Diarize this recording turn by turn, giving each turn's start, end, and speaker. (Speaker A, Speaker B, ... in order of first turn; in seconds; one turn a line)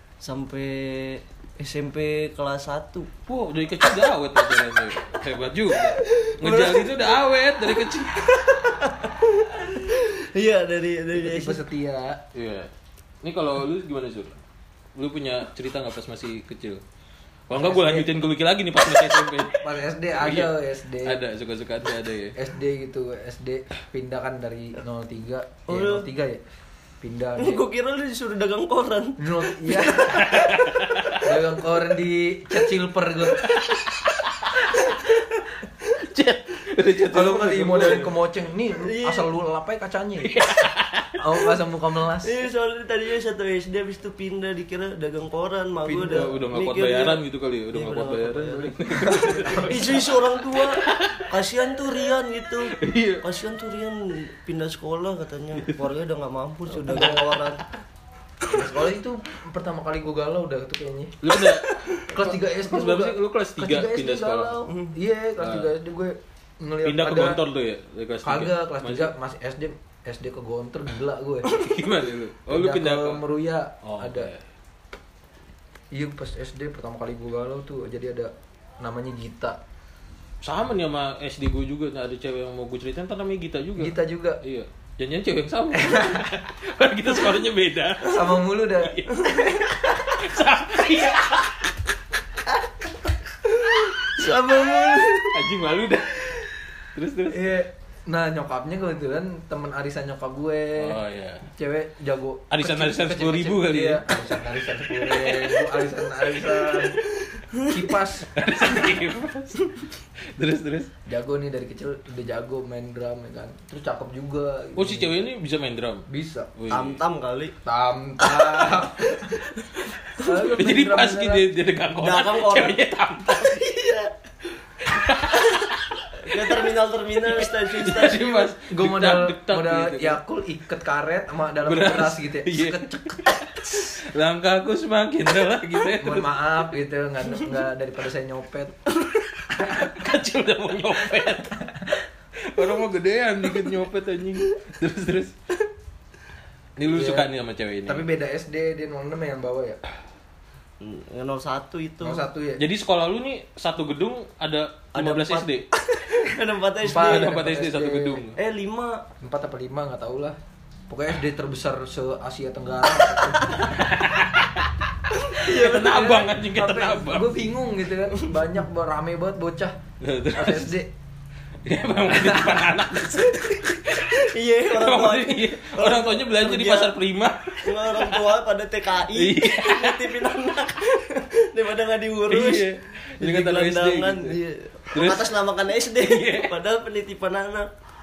Speaker A: 0.2-3.1
Speaker B: 3.3-8.6
Speaker A: 5.9-7.2
Speaker A: 8.3-11.6
Speaker C: 11.1-12.2
Speaker B: 12.3-12.7
Speaker B: 13.2-14.4
Speaker B: 14.9-16.8
Speaker B: 17.5-22.3
Speaker C: 17.5-18.1
Speaker C: 19.6-21.2
Speaker C: 22.4-26.4
Speaker A: 25.7-26.1
Speaker C: 27.0-27.6
Speaker A: 27.4-30.6
Speaker C: 29.2-30.6
Speaker B: 30.2-31.3
Speaker C: 31.1-33.4
Speaker B: 33.4-35.0
Speaker B: 36.0-38.1
Speaker C: 37.1-40.3
Speaker A: 38.8-39.3
Speaker B: 40.2-41.2
Speaker C: 41.2-42.4
Speaker A: 42.2-47.2
Speaker C: 45.9-46.3
Speaker B: 45.9-50.2
Speaker A: 47.7-57.6
Speaker C: 49.0-50.0
Speaker B: 50.8-51.3
Speaker B: 52.7-53.2
Speaker C: 56.9-57.3
Speaker B: 56.9-57.2
Speaker C: 58.5-61.1
Speaker B: 61.2-64.6
Speaker C: 62.1-67.4
Speaker A: 64.7-64.9
Speaker B: 65.4-65.7
Speaker B: 66.8-69.1
Speaker C: 68.2-71.7
Speaker B: 71.5-73.2
Speaker C: 72.5-74.3
Speaker B: 73.8-74.4
Speaker C: 75.9-79.6
Speaker B: 80.4-91.7
Speaker C: 83.8-84.4
Speaker C: 85.7-86.3
Speaker C: 88.0-90.1
Speaker A: 92.5-92.7
Speaker A: 93.4-95.4
Speaker B: 95.3-97.5
Speaker C: 97.3-107.0
Speaker B: 100.8-101.5
Speaker B: 102.5-104.1
Speaker B: 105.0-105.6
Speaker A: 107.2-107.8
Speaker C: 107.7-108.3
Speaker B: 108.3-110.9
Speaker C: 111.0-115.2
Speaker B: 114.8-117.0
Speaker C: 116.1-116.5
Speaker A: 116.7-117.5
Speaker C: 117.6-119.4
Speaker B: 120.2-123.7
Speaker C: 120.2-121.5
Speaker A: 122.0-124.1
Speaker B: 124.8-126.6
Speaker A: 125.5-128.5
Speaker B: 127.2-130.2
Speaker C: 128.7-133.2
Speaker B: 131.6-136.3
Speaker C: 136.0-138.8
Speaker B: 139.6-142.0
Speaker B: 142.5-145.3
Speaker B: 146.8-148.1
Speaker C: 146.9-147.3
Speaker C: 147.8-149.8
Speaker A: 150.8-152.2
Speaker C: 152.0-152.6
Speaker B: 152.6-155.7
Speaker A: 154.9-157.4
Speaker C: 156.8-158.2
Speaker B: 156.9-158.4
Speaker A: 158.3-159.1
Speaker C: 159.2-160.4
Speaker C: 160.9-163.7
Speaker B: 163.7-164.7
Speaker A: 165.3-165.9
Speaker C: 165.3-169.8
Speaker B: 165.4-167.3
Speaker B: 170.0-170.7
Speaker C: 170.3-170.9
Speaker B: 171.6-178.2
Speaker C: 172.1-172.6
Speaker A: 173.9-176.9
Speaker A: 177.6-182.7
Speaker B: 179.1-180.2
Speaker B: 182.3-184.4
Speaker A: 183.2-187.7
Speaker B: 184.9-185.4
Speaker B: 185.9-186.5